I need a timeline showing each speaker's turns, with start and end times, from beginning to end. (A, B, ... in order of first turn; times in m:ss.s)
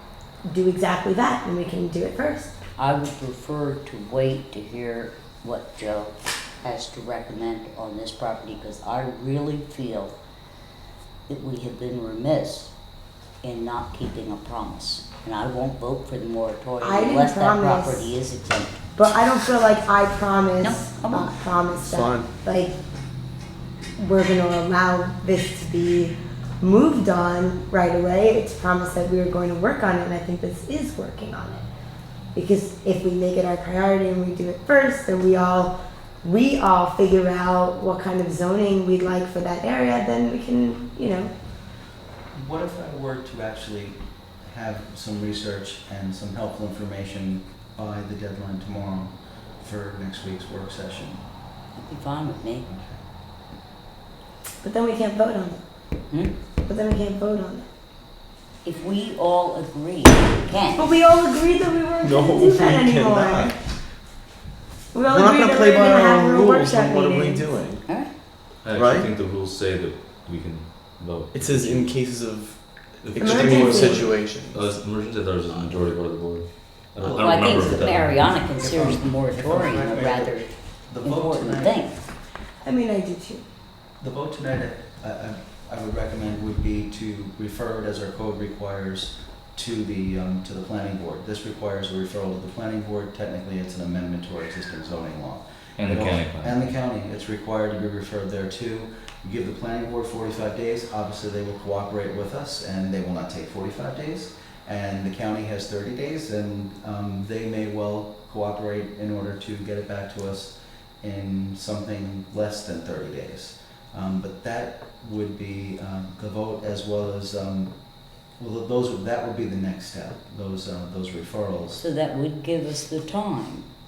0:00.4-0:02.6 A
0:02.8-0:10.1 B
0:11.3-0:12.7 B
0:13.4-0:18.8 B
0:16.8-0:18.1 A
0:19.0-0:22.8 A
0:20.6-0:21.3 B
0:21.8-0:22.3 C
0:24.0-0:31.6 A
0:32.3-0:41.3 A
0:42.3-0:51.2 D
0:51.8-0:52.6 B
0:52.6-0:53.0 D
0:54.6-0:55.6 A
0:56.6-0:57.7 A
0:58.6-1:00.9 B
1:00.7-1:03.5 A
1:02.0-1:03.6 C
1:04.9-1:07.5 A
1:05.0-1:07.8 C
1:07.9-1:08.1 B
1:08.5-1:12.0 E
1:08.7-1:09.1 C
1:11.3-1:14.8 C
1:13.0-1:18.4 E
1:13.2-1:14.2 A
1:17.0-1:17.9 C
1:17.1-1:22.0 B
1:18.4-1:21.9 D
1:22.6-1:23.4 A
1:24.0-2:01.8 D
1:35.8-1:36.8 E
2:01.7-2:03.7 B